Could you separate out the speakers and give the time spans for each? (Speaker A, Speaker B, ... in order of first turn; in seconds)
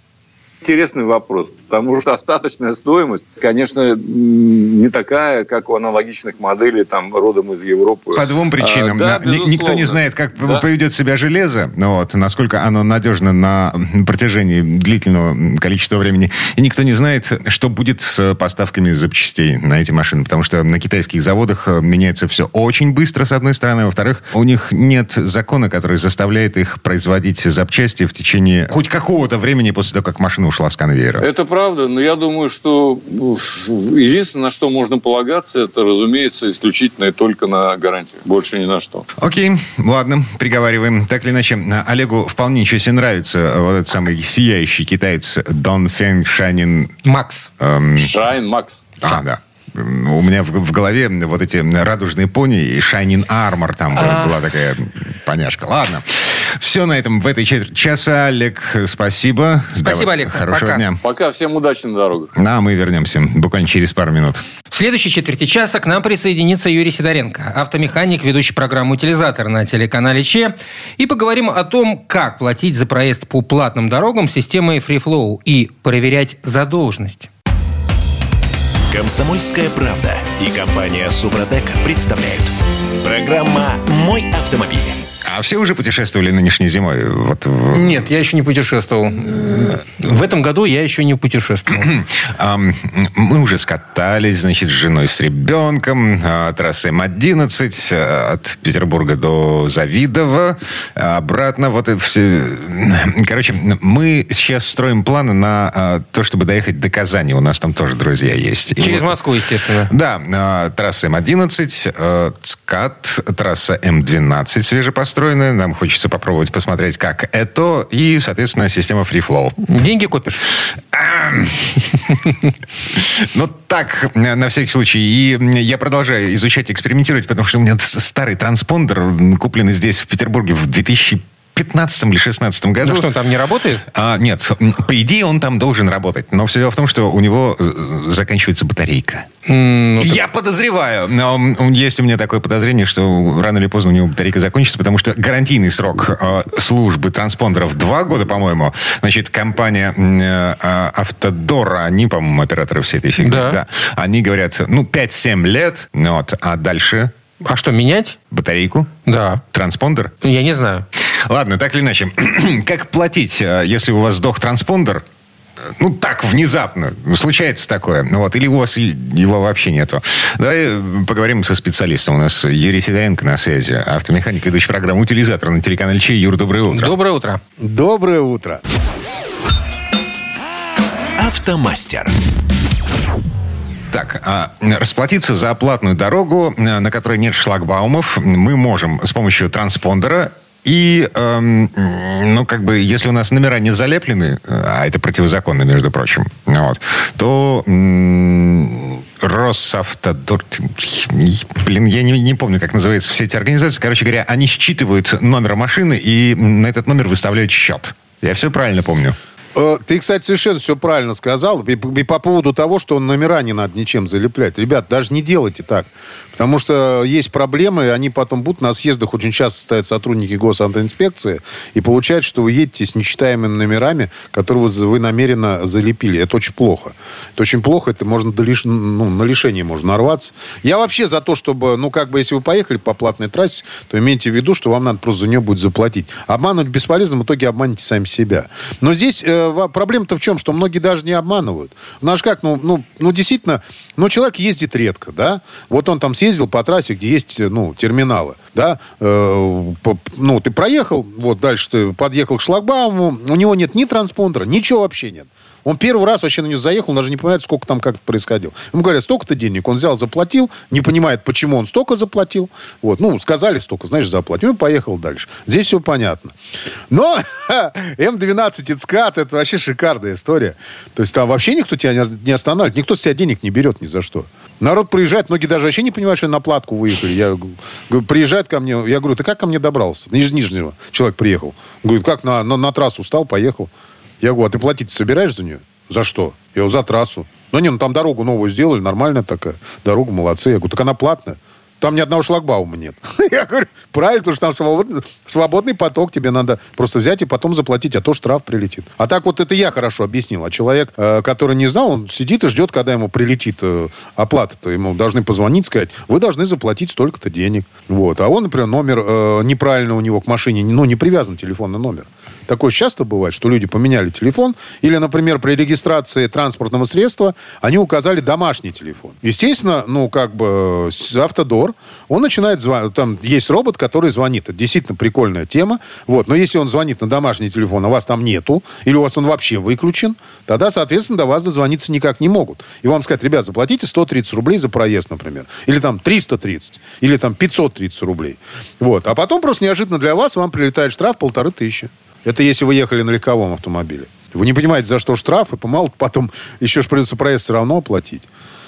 Speaker A: 0.6-10.6, 31.2-39.1, 48.0-48.8, 61.0-62.3
Speaker B: 8.1-31.3, 39.2-46.9, 47.6-48.1, 49.0-61.0, 62.4-64.4, 85.2-88.0, 91.7-109.2, 109.9-119.6, 120.9-121.9, 122.9-133.1, 133.9-139.3, 140.0-157.1, 158.3-158.9, 159.5-160.1, 161.2-165.0, 165.8-176.9, 183.9-209.2
Speaker C: 47.0-47.5, 53.9-54.4, 59.8-60.9, 64.7-77.3, 87.7-91.9, 108.8-109.9, 119.6-120.4, 132.8-133.8, 139.4-140.2, 153.2-153.6, 157.4-158.2, 159.1-159.4, 160.2-160.8, 176.7-177.4
Speaker D: 78.9-85.0, 181.2-182.1
Speaker E: 177.6-178.6, 209.5-266.3, 266.9-348.2